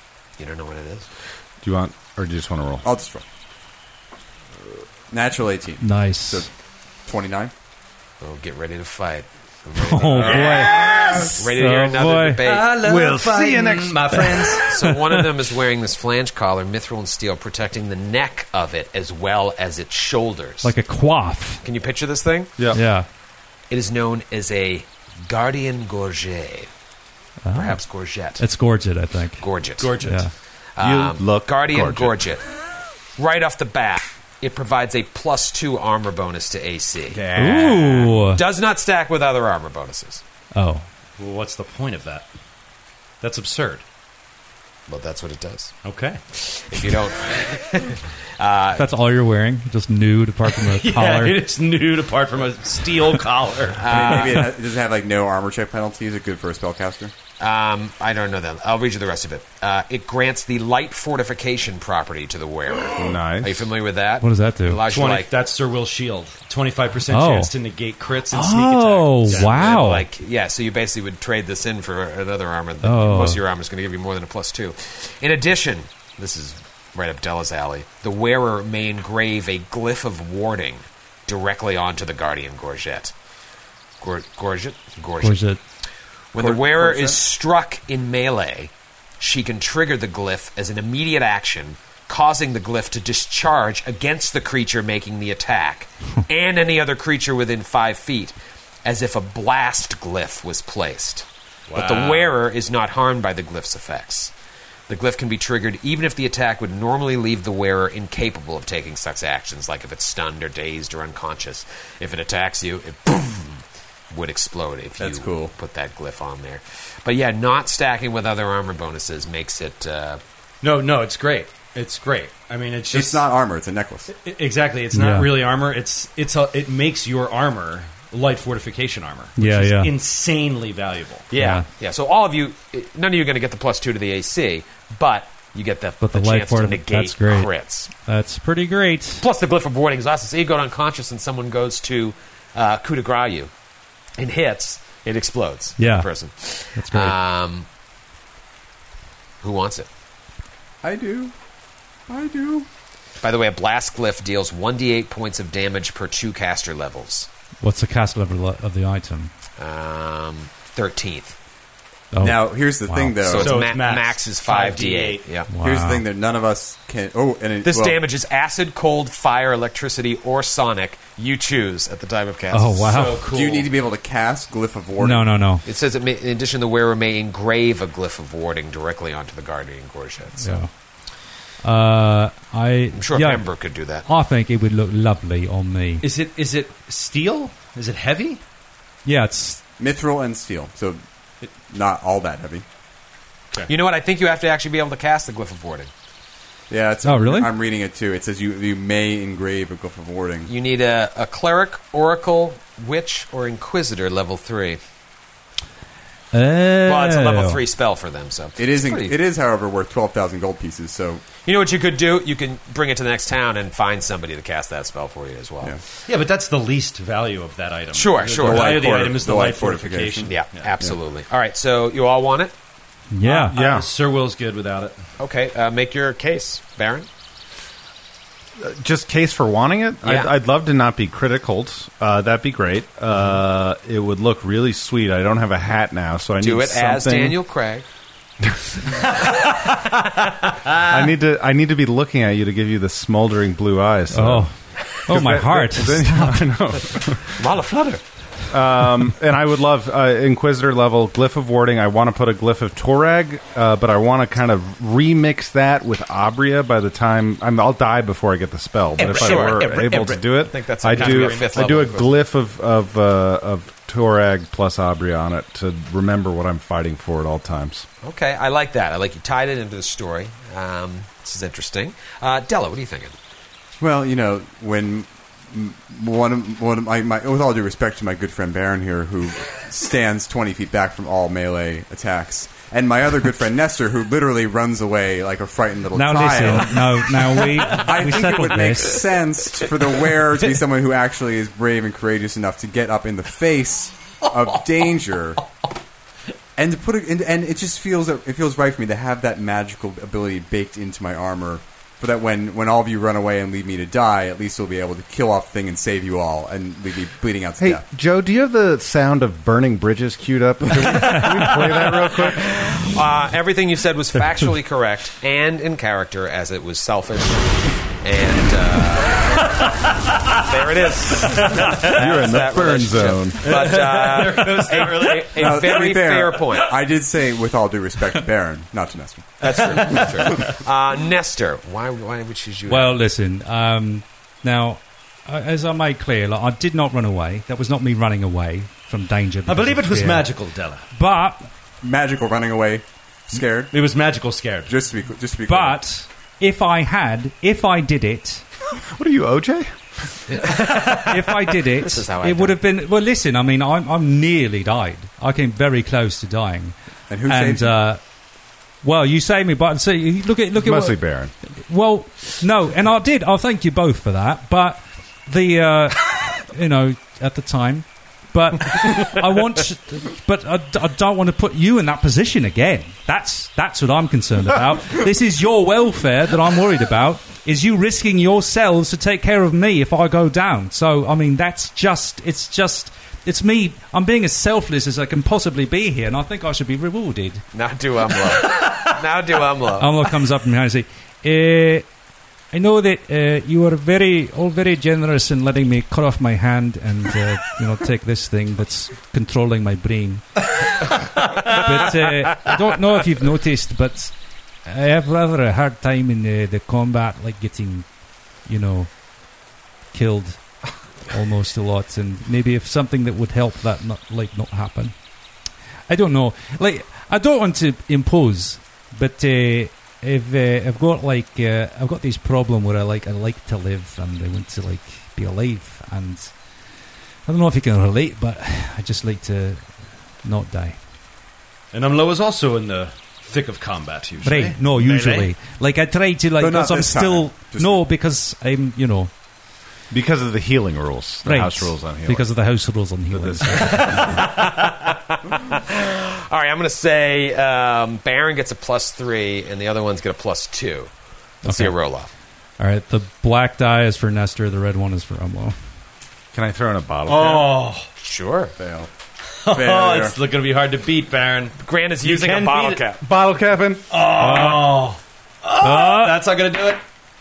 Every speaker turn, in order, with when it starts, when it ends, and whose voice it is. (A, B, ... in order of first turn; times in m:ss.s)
0:00.4-0:01.1 A
0:01.6-0:02.8 B
0:02.8-0:03.2 C
0:05.1-0:06.5 C
0:05.8-0:06.5 D
0:07.1-0:07.5 C
0:08.2-0:10.8 A
0:09.8-0:12.4 D
0:10.2-0:11.2 C
0:10.3-0:11.4 E
0:10.8-0:11.3 B
0:11.3-0:12.8 A
0:12.4-0:14.7 E
0:12.8-0:14.6 B
0:14.7-0:20.7 A
0:20.6-0:21.6 D
0:21.6-0:22.5 A
0:22.7-0:23.1 D
0:23.7-0:26.7 A
0:27.4-0:27.8 D
0:27.5-0:28.4 A
0:28.4-0:29.4 D
0:29.4-0:29.9 A
0:29.8-0:30.3 E
0:30.0-0:30.3 D
0:30.8-0:32.4 A
0:30.8-0:32.2 B
0:33.2-0:40.2 A
0:37.1-0:37.8 B
0:37.4-0:38.4 D
0:40.5-0:40.8 D
0:41.2-0:42.3 E
0:43.2-0:43.8 E
0:44.9-0:45.8 A
0:45.8-0:46.2 E
0:46.3-0:48.9 A
0:48.8-0:51.4 D
0:50.5-0:54.1 E
0:53.8-0:54.5 A
0:53.9-0:57.1 C
0:57.4-1:05.3 A
1:02.9-1:03.7 B
1:04.2-1:04.8 D
1:04.9-1:09.8 E
1:07.1-1:07.5 D
1:08.3-1:10.1 D
1:09.3-1:23.1 A
1:12.8-1:13.4 D
1:24.0-1:25.4 A
1:25.2-1:25.6 D
1:26.3-1:44.3 A
1:26.4-1:27.2 C
1:41.7-1:42.4 E
1:44.9-2:00.2 A
1:55.0-1:55.6 C
2:00.6-2:03.3 E
2:02.9-2:04.1 C
2:04.1-2:11.3 E
2:04.9-2:05.3 D
2:09.4-2:09.9 D
2:11.3-2:17.9 A
2:11.3-2:11.7 D
2:16.0-2:19.2 D
2:19.2-2:23.5 A
2:24.2-2:27.7 A
2:25.8-2:26.1 D
2:26.8-2:27.2 D
2:29.4-2:29.9 A
2:30.8-2:31.3 C
2:32.1-2:32.7 C
2:33.2-2:37.3 A
2:37.6-2:39.3 D
2:39.6-2:41.4 A
2:42.1-2:43.2 D
2:42.2-2:43.6 C
2:43.2-2:45.5 A
2:43.4-2:45.3 E
2:45.5-2:46.1 D
2:45.6-2:48.0 C
2:47.6-2:53.0 A
2:52.5-2:53.3 D
2:52.9-2:53.7 E
2:53.3-2:55.3 C
2:55.0-2:55.6 D
2:55.6-3:00.6 A
3:00.4-3:00.7 D
3:01.6-3:06.0 D
3:02.9-3:04.1 A
3:06.0-3:08.4 E
3:09.0-3:09.6 D
3:09.8-3:11.0 C
3:11.7-3:12.6 C
3:13.7-3:15.9 A
3:16.7-3:20.5 C
3:17.0-3:17.5 D
3:20.5-3:24.8 A
3:26.3-3:27.6 D
3:26.9-3:29.2 A
3:28.6-3:31.2 C
3:31.4-3:35.8 A
3:36.1-3:40.7 E
3:37.9-3:38.9 A
3:38.4-3:40.4 C
3:40.3-3:42.5 A
3:43.1-3:43.6 D
3:43.2-3:45.0 E
3:43.5-3:43.9 B
3:45.2-3:47.1 A
3:48.6-3:57.4 B
3:50.0-3:50.3 A
3:56.4-3:57.8 A
4:00.8-4:04.5 B
4:04.1-4:04.5 D
4:05.1-4:06.5 D
4:05.1-4:07.3 B
4:07.3-4:08.0 A
4:08.5-4:27.9 B
4:19.0-4:22.0 E
4:19.0-4:22.1 A
4:28.0-4:33.2 A
4:33.8-4:55.4 C
4:45.9-4:49.1 D
4:56.6-5:07.8 C
5:07.6-5:12.6 B
5:12.1-5:19.7 A
5:20.3-5:26.7 A
5:21.2-5:22.0 E
5:21.8-5:23.6 B
5:23.4-5:25.8 E
5:25.4-5:30.5 C
5:29.4-5:33.0 A
5:29.4-5:30.5 E
5:32.7-5:40.3 D
5:39.5-5:40.9 E
5:40.9-5:41.5 D
5:41.8-5:43.7 C
5:43.7-5:44.8 E
5:44.7-5:45.8 C
5:45.5-5:48.4 D
5:48.8-5:49.8 B
5:50.3-5:52.6 A
5:50.4-5:58.0 D
5:57.1-5:57.8 C
5:58.8-6:27.4 D
6:00.6-6:01.3 B
6:27.5-6:29.9 A
6:29.8-6:31.9 D
6:32.5-6:44.1 D
6:44.6-6:47.9 D
6:48.4-6:49.0 D
6:49.9-6:55.0 D
6:55.9-7:06.4 D
7:07.3-7:10.8 D
7:11.7-7:15.3 E
7:14.2-7:19.1 D
7:16.4-7:17.9 C
7:19.9-7:22.3 B
7:21.2-7:24.3 D
7:23.1-7:24.1 B
7:23.8-7:30.9 A
7:31.4-7:32.1 A
7:31.4-7:31.8 D
7:32.6-7:35.6 D
7:36.3-7:37.5 B
7:37.1-7:37.9 E
7:38.0-7:38.5 A
7:38.6-7:38.9 C
7:39.4-7:42.8 E
7:39.5-7:40.2 C
7:41.6-7:43.0 A
7:43.0-7:44.0 B
7:43.9-7:46.8 E
7:44.2-7:44.9 D
7:45.6-7:46.2 D